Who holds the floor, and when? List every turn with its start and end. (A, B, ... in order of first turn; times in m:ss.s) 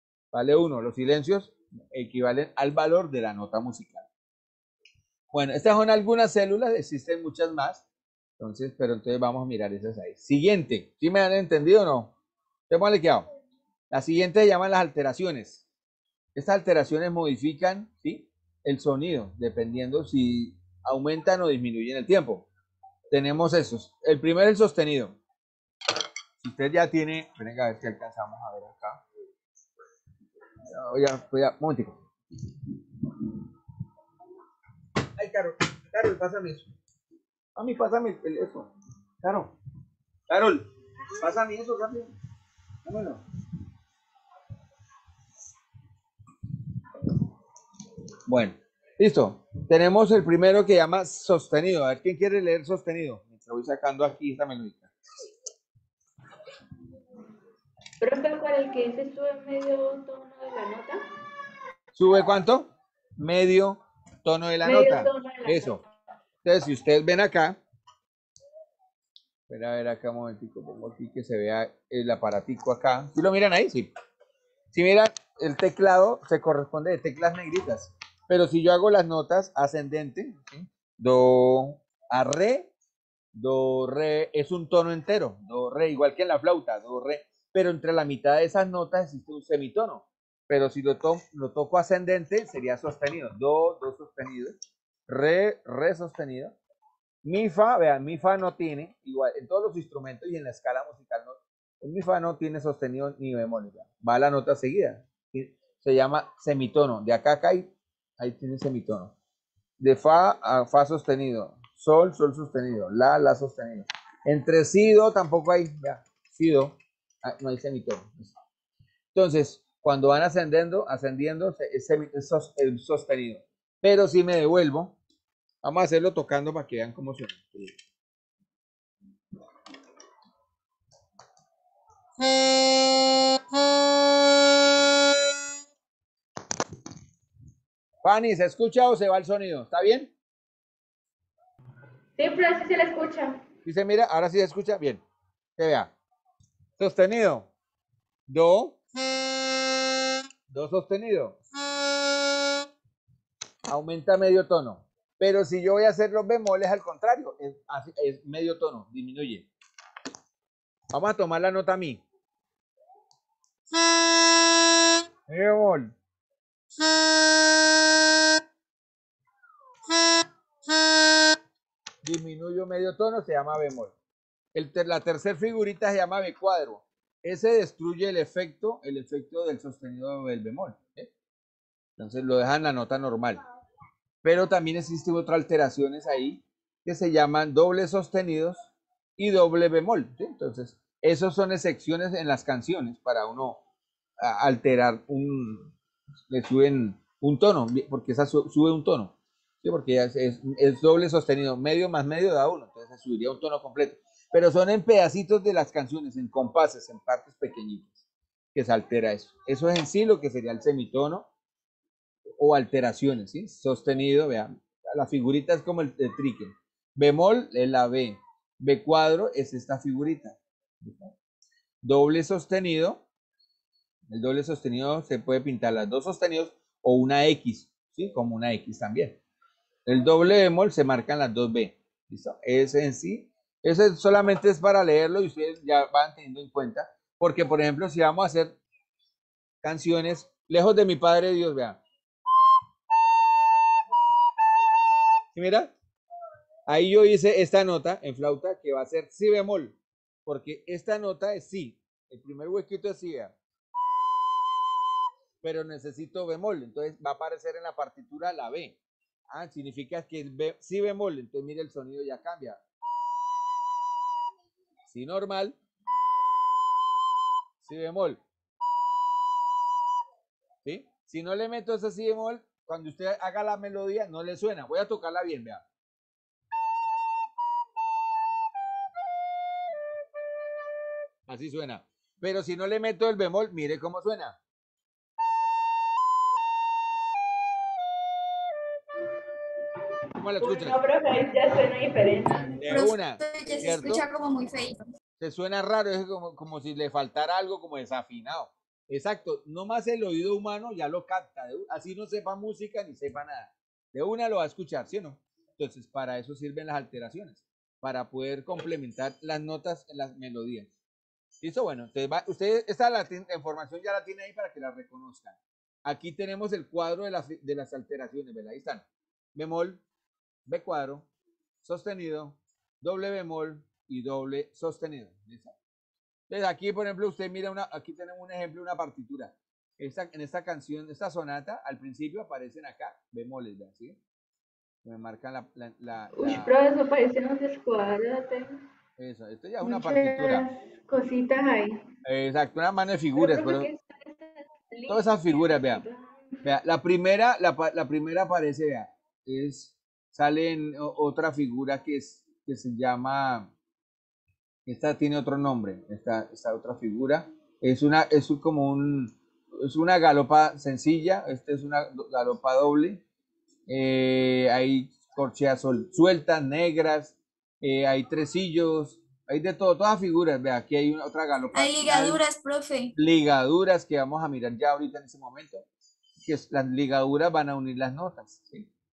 0:00.3-0:04.1 A
0:05.3-0:07.8 A
0:08.4-0:12.1 A
0:12.7-0:13.3 A
0:13.9-0:15.6 A
0:16.3-0:22.4 A
0:23.1-0:25.2 A
0:26.4-0:29.0 A
0:30.7-0:32.0 A
0:35.2-0:36.7 A
0:37.6-0:38.7 A
0:39.2-0:39.5 A
0:40.3-0:42.1 A
0:42.8-0:43.2 A
0:48.3-0:54.9 A
0:58.0-1:01.0 B
1:01.9-1:05.8 A
1:04.6-1:05.8 B
1:06.4-1:07.6 A
1:09.5-1:13.9 A
1:14.7-1:22.7 A
1:23.3-1:34.5 A
1:35.1-1:36.5 A
1:37.2-1:49.1 A
1:49.8-1:58.3 A
1:59.1-2:05.0 A
2:05.6-2:07.7 A
2:18.0-2:20.1 A
2:22.2-2:23.4 B
2:23.6-2:25.0 A
2:25.6-2:25.9 A
2:26.8-2:27.5 A
2:28.3-2:28.8 A
2:30.5-2:31.4 A
2:33.7-2:39.5 A
2:40.9-2:42.0 A
2:45.3-2:45.9 A
2:52.0-2:53.9 A
2:54.5-3:01.1 A
3:02.0-3:03.4 A
3:04.2-3:13.6 A
3:14.2-3:15.7 A
3:16.3-3:28.0 A
3:28.5-3:31.3 A
3:32.4-3:41.1 A
3:41.8-3:43.0 A
3:44.1-3:49.2 A
3:49.8-3:58.6 A
3:59.6-4:01.8 A
4:05.3-4:05.7 A
4:06.7-4:13.3 A
4:15.4-4:18.8 A
4:19.3-4:22.6 A
4:24.9-4:25.6 A
4:27.6-4:28.2 A
4:30.6-4:35.6 A
4:41.3-4:44.4 A
4:50.2-4:50.8 A
4:50.4-4:52.5 B
4:52.4-4:54.0 A
4:52.7-4:54.8 C
4:55.2-5:10.7 A
5:11.4-5:18.8 A
5:19.3-5:19.8 A
5:20.5-5:21.0 A
5:21.6-5:25.5 A
5:26.3-5:34.0 A
5:34.8-5:36.5 A
5:36.2-5:38.6 B
5:39.0-5:40.4 A
5:39.6-5:41.8 B
5:42.0-5:43.7 A
5:43.2-5:46.4 B
5:44.9-5:45.8 A
5:46.4-5:53.5 A
5:54.6-6:03.0 A
6:03.7-6:12.2 A
6:11.5-6:12.9 C
6:12.9-6:15.6 A
6:16.2-6:18.7 A